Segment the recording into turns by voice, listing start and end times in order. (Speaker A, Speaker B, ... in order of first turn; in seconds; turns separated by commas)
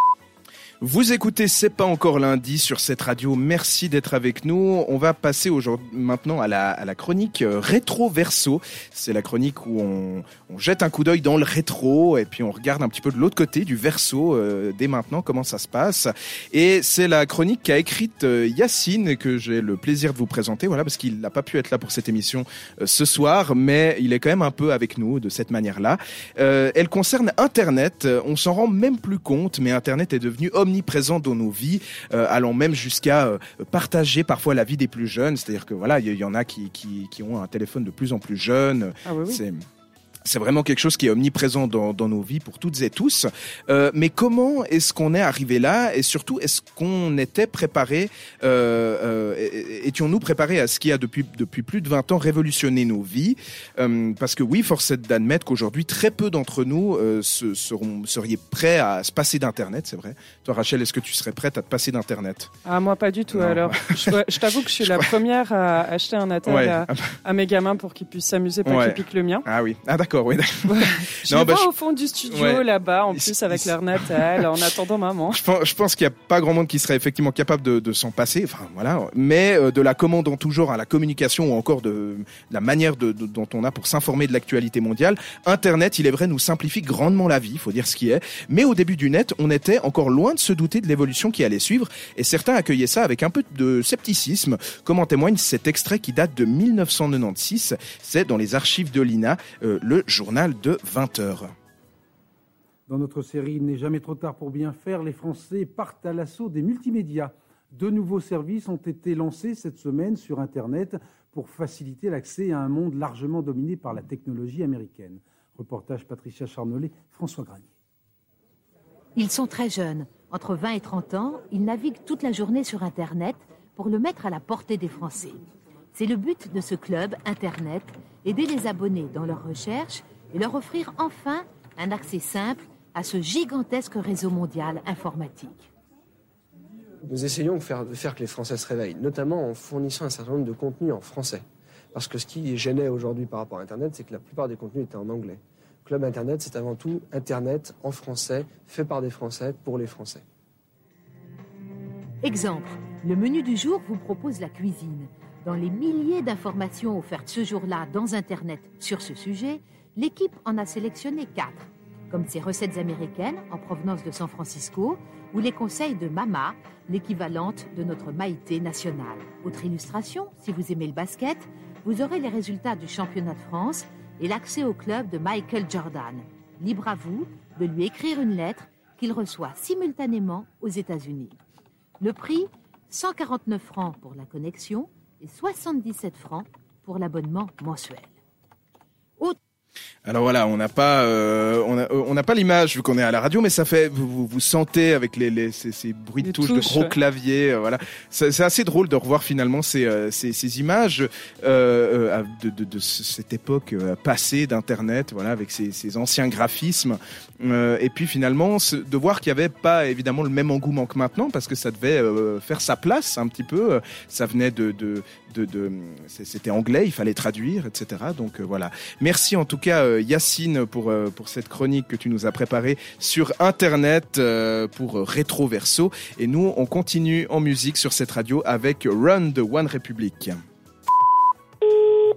Speaker A: 0.8-39.6, Speaker B: 39.1-39.4, Speaker A: 40.2-62.5, Speaker B: 62.6-69.4, Speaker A: 63.3-64.2, Speaker A: 66.4-67.2, Speaker A: 68.7-71.7, Speaker B: 70.7-75.4, Speaker A: 72.3-74.5, Speaker A: 75.3-101.5, Speaker C: 102.9-117.7, Speaker D: 119.2-125.4, Speaker D: 125.9-135.7, Speaker E: 137.1-150.2, Speaker D: 152.2-181.4, Speaker D: 182.0-188.1, Speaker A: 190.1-230.4, Speaker B: 196.2-196.9